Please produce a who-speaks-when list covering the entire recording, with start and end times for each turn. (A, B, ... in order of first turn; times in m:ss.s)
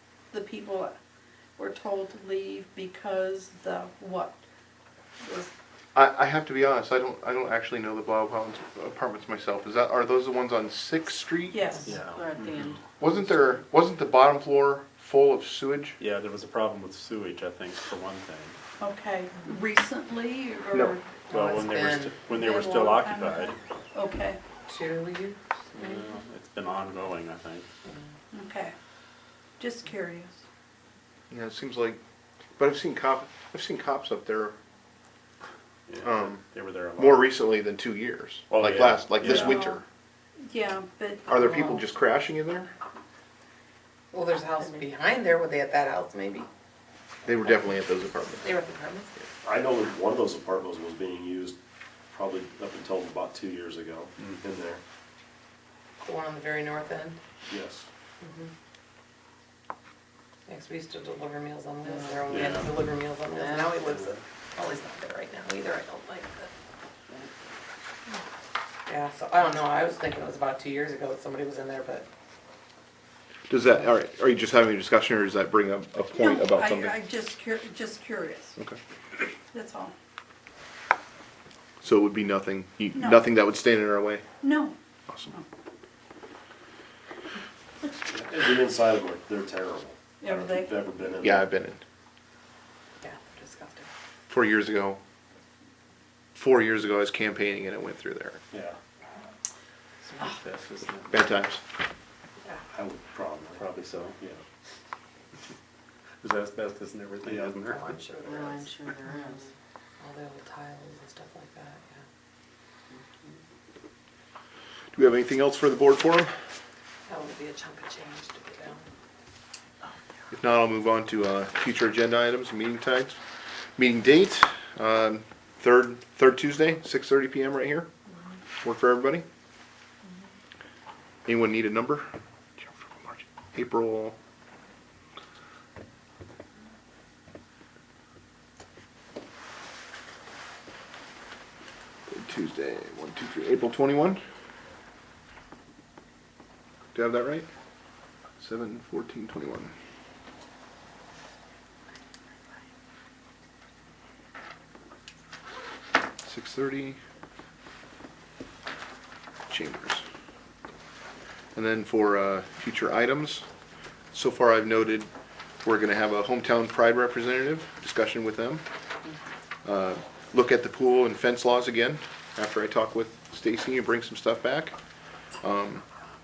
0:00.3-0:00.9 A
0:01.6-0:04.4 A
0:05.2-0:05.5 A
0:05.9-0:11.6 B
0:11.5-0:11.9 A
0:11.9-0:12.8 C
0:12.0-0:13.2 D
0:13.0-0:16.0 B
0:16.0-0:18.6 C
0:18.8-0:21.0 A
0:21.3-0:22.2 E
0:21.3-0:23.6 C
0:22.3-0:24.4 A
0:24.7-0:26.1 E
0:25.7-0:27.7 C
0:28.3-0:28.7 A
0:29.6-0:30.4 A
0:31.3-0:32.0 B
0:32.6-0:34.5 B
0:35.9-0:37.4 C
0:36.0-0:36.4 B
0:37.0-0:39.8 B
0:38.5-0:39.6 C
0:39.2-0:39.8 A
0:40.4-0:41.8 A
0:41.3-0:42.7 B
0:44.1-0:46.5 E
0:47.2-0:48.5 B
0:48.2-0:49.3 E
0:49.4-0:51.6 F
0:52.1-0:54.8 F
0:56.0-0:57.2 E
0:57.4-0:57.9 F
0:58.2-0:58.5 E
1:00.5-1:06.5 E
1:01.8-1:02.3 D
1:02.3-1:02.6 F
1:02.3-1:02.7 C
1:03.3-1:04.0 D
1:08.9-1:12.1 E
1:13.5-1:17.0 B
1:16.2-1:18.6 A
1:19.5-1:19.9 A
1:21.8-1:24.2 B
1:22.9-1:23.2 A
1:24.4-1:24.8 A
1:28.1-1:31.4 F
1:30.2-1:30.8 A
1:31.2-1:31.8 B
1:33.0-1:33.9 E
1:34.3-1:35.0 B
1:36.4-1:38.4 B
1:38.5-1:38.8 F
1:40.0-1:41.3 C
1:41.1-1:41.6 B
1:42.7-1:44.4 F
1:43.6-1:44.1 C
1:46.2-1:48.0 C
1:47.2-1:47.7 F
1:47.7-1:48.7 E
1:48.2-1:49.5 D
1:50.0-1:52.0 E
1:52.9-1:53.3 D
1:54.9-1:56.3 B
1:57.1-1:58.8 E
2:00.3-2:03.2 B
2:03.8-2:07.9 B
2:08.6-2:09.2 B
2:11.2-2:12.1 B
2:12.6-2:14.2 B
2:22.1-2:24.2 B
2:26.9-2:27.5 B
2:28.4-2:29.7 B
2:36.2-2:37.0 B
2:39.5-2:40.0 B
2:41.5-2:43.4 B
2:44.1-2:45.1 B
2:45.6-2:48.6 B
2:49.6-2:54.7 B
2:55.4-2:55.8 B